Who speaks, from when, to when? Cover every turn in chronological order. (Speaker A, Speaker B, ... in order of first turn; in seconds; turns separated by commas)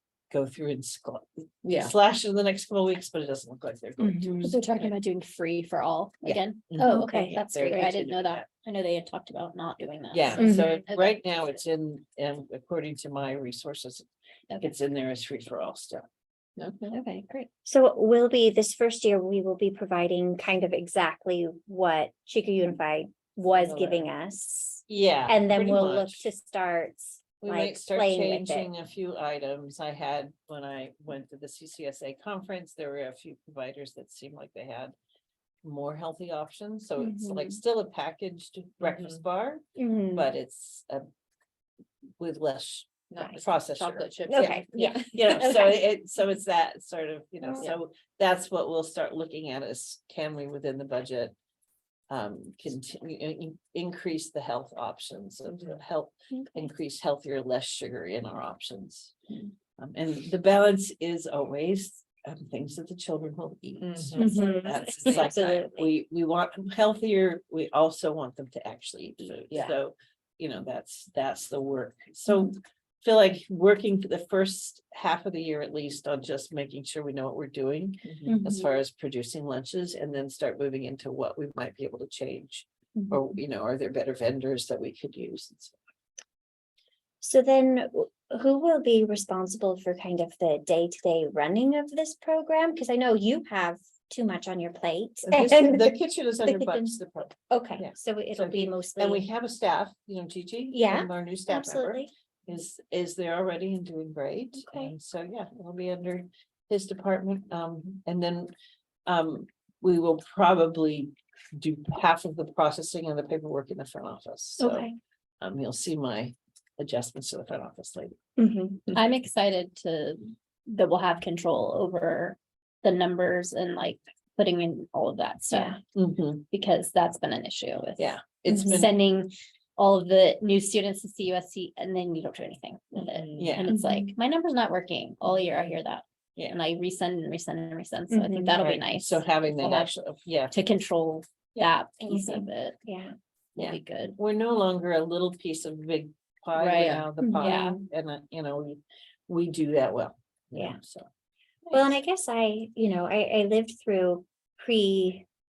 Speaker A: 0.3-4.9, Speaker B: 1.6-1.9, Speaker C: 4.0-4.6, Speaker D: 4.4-11.2, Speaker A: 6.2-8.4, Speaker C: 6.8-7.6, Speaker A: 10.1-14.1, Speaker C: 10.4-10.7, Speaker A: 14.6-16.0, Speaker B: 16.6-17.0, Speaker D: 16.9-17.5, Speaker C: 17.6-28.7, Speaker B: 23.5-24.1, Speaker A: 24.9-26.3, Speaker A: 27.4-34.9, Speaker A: 35.6-41.0, Speaker C: 37.0-37.6, Speaker B: 38.8-39.2, Speaker C: 39.8-40.3, Speaker A: 42.2-51.3, Speaker B: 43.1-45.2, Speaker C: 44.2-45.8, Speaker C: 47.4-47.7, Speaker A: 52.1-59.1, Speaker C: 56.3-56.7, Speaker A: 59.8-85.8, Speaker B: 63.8-64.1, Speaker C: 64.2-65.9, Speaker C: 78.2-78.7, Speaker C: 83.0-83.2, Speaker C: 87.2-96.9, Speaker A: 95.3-108.5, Speaker C: 97.5-99.2, Speaker C: 100.7-102.1, Speaker C: 104.6-104.9, Speaker A: 109.0-114.9, Speaker C: 114.6-114.9, Speaker A: 115.4-118.1, Speaker C: 118.4-118.9, Speaker D: 118.9-125.8, Speaker C: 125.5-125.8, Speaker A: 125.9-126.4, Speaker D: 126.5-139.9, Speaker A: 128.0-128.9, Speaker C: 128.5-128.8, Speaker A: 133.4-133.7, Speaker C: 133.7-134.1, Speaker C: 138.1-138.6, Speaker A: 138.6-140.5, Speaker D: 140.5-142.8, Speaker C: 142.1-143.1, Speaker D: 143.6-144.2, Speaker A: 143.6-151.1, Speaker D: 146.6-147.8, Speaker C: 147.2-147.8, Speaker C: 151.7-155.2